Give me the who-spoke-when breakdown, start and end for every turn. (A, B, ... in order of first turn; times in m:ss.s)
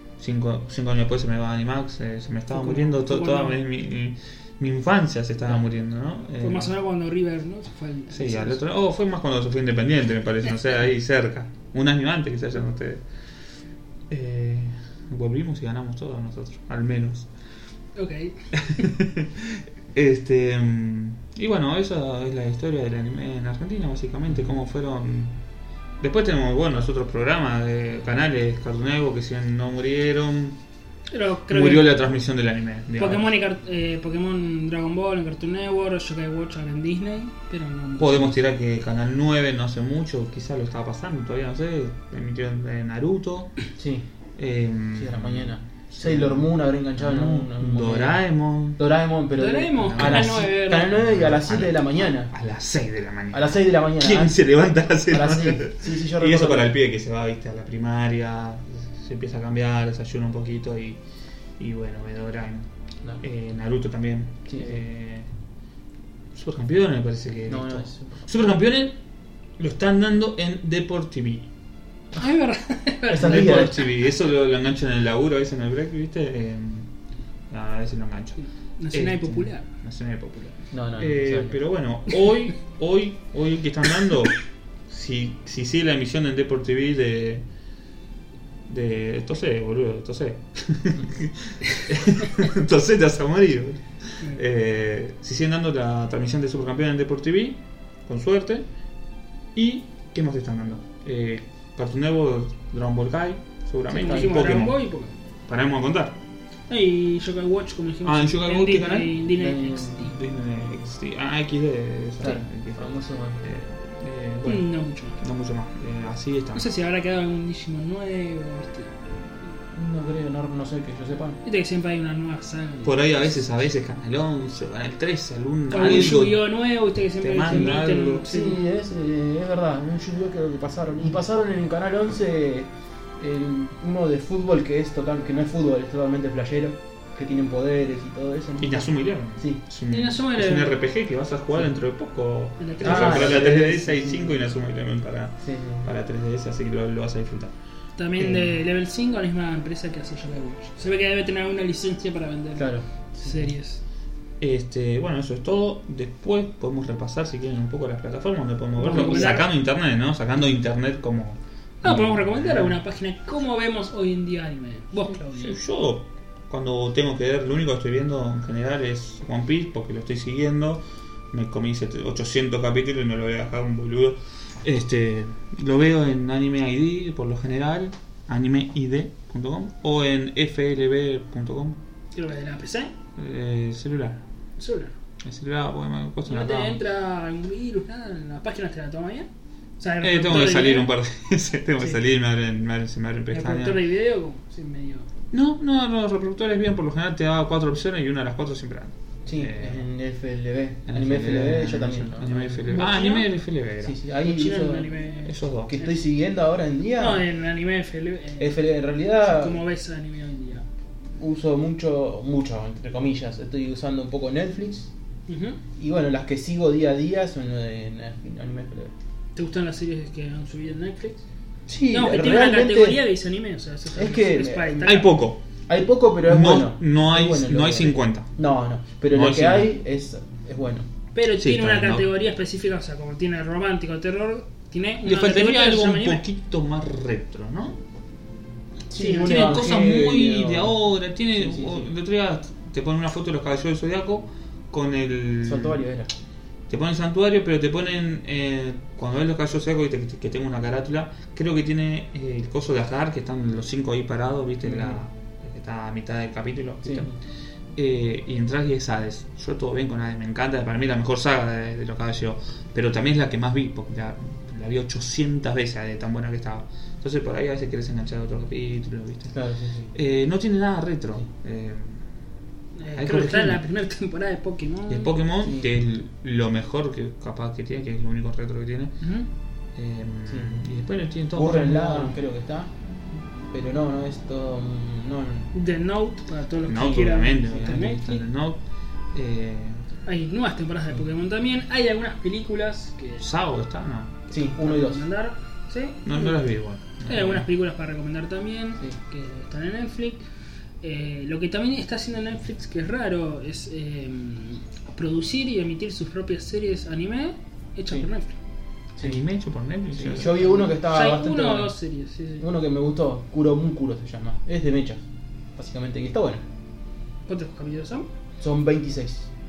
0:00.2-0:06.7 A
0:02.5-0:03.6 B
0:06.4-0:08.6 B
0:08.1-0:13.0 A
0:14.1-0:17.3 A
0:18.0-0:18.8 B
0:18.5-0:25.4 A
0:26.0-0:30.6 A
0:31.1-0:32.0 B
0:31.5-0:33.3 A
0:33.0-0:38.4 B
0:38.0-0:43.6 A
0:43.8-0:44.0 C
0:44.4-0:48.8 A
0:44.9-0:48.2 C
0:48.8-0:52.3 C
0:49.4-0:50.9 B
0:49.8-1:01.0 A
0:53.3-0:54.4 C
0:55.1-0:56.7 C
1:01.6-1:02.7 A
1:03.2-1:05.3 A
1:04.5-1:04.8 C
1:06.3-1:09.0 A
1:07.5-1:08.3 C
1:09.6-1:11.5 A
1:12.2-1:13.9 B
1:13.1-1:13.7 C
1:13.2-1:16.9 A
1:17.5-1:27.4 A
1:18.4-1:19.7 B
1:20.7-1:21.6 C
1:28.6-1:38.7 A
1:39.5-1:44.8 A
1:43.9-1:45.1 B
1:44.0-1:44.6 C
1:45.5-1:46.2 A
1:46.7-1:50.2 B
1:48.0-1:49.2 A
1:49.3-1:50.1 C
1:50.0-1:56.6 A
1:52.2-1:53.4 C
1:54.4-1:55.2 B
1:56.5-1:58.9 B
1:59.7-2:01.4 C
2:01.4-2:03.4 B
2:02.8-2:06.5 A
2:05.7-2:08.6 B
2:07.2-2:08.3 A
2:07.5-2:19.6 C
2:18.6-2:27.5 A
2:19.9-2:20.8 B
2:22.6-2:23.5 B
2:22.8-2:24.3 C
2:25.4-2:25.8 C
2:28.0-2:33.8 B
2:28.2-2:28.6 A
2:32.6-2:33.5 C
2:34.4-2:42.8 A
2:38.8-2:39.5 B
2:38.8-2:39.4 C
2:41.8-2:45.6 B
2:45.3-3:01.8 A
3:02.1-3:02.9 B
3:03.2-3:04.2 A
3:04.6-3:04.9 B
3:05.2-3:06.8 A
3:06.2-3:09.3 B
3:09.8-3:10.9 B
3:10.0-3:13.8 A
3:13.3-3:15.1 B
3:15.3-3:19.8 A
3:19.2-3:22.7 C
3:20.9-3:24.0 A
3:22.7-3:23.3 B
3:23.8-3:24.9 C
3:24.2-3:26.0 B
3:25.2-3:25.7 A
3:25.7-3:27.2 C
3:27.0-3:28.6 B
3:28.4-3:29.6 C
3:29.2-3:30.6 B
3:31.2-3:34.9 C
3:35.3-3:35.6 B
3:35.8-3:38.9 C
3:39.3-3:41.2 B
3:41.7-3:43.0 C
3:41.9-3:45.2 B
3:43.9-3:44.9 C
3:44.8-3:45.4 A
3:45.7-3:50.9 C
3:46.2-3:48.4 A
3:49.1-3:49.7 A
3:51.1-3:56.2 B
3:51.3-3:52.1 A
3:55.0-3:57.8 A
3:58.9-4:00.8 C
3:59.0-3:59.8 B
3:59.2-4:05.8 A
4:01.3-4:01.9 C
4:05.4-4:06.1 C
4:06.7-4:17.2 A
4:14.6-4:15.0 C
4:16.8-4:17.1 C
4:17.7-4:29.4 A
4:29.3-4:29.9 C
4:29.9-4:32.0 A
4:32.8-4:35.2 B
4:32.9-4:33.6 A
4:34.9-4:39.0 A
4:35.4-4:35.7 C
4:39.0-4:39.3 B
4:39.7-4:42.2 A
4:40.3-4:40.6 C
4:41.3-4:42.7 C
4:43.5-4:45.5 C
4:45.5-4:48.2 B
4:46.6-4:49.9 A
4:50.0-4:53.2 B
4:53.2-4:54.3 A
4:54.3-4:55.0 C
4:54.4-5:00.2 B
4:56.0-4:57.5 A
5:00.8-5:08.4 B
5:08.9-5:09.2 C
5:09.0-5:10.7 A
5:09.9-5:11.7 C
5:10.7-5:12.4 B
5:12.4-5:15.0 C
5:15.6-5:16.4 C
5:17.3-5:18.1 B
5:18.4-5:19.3 C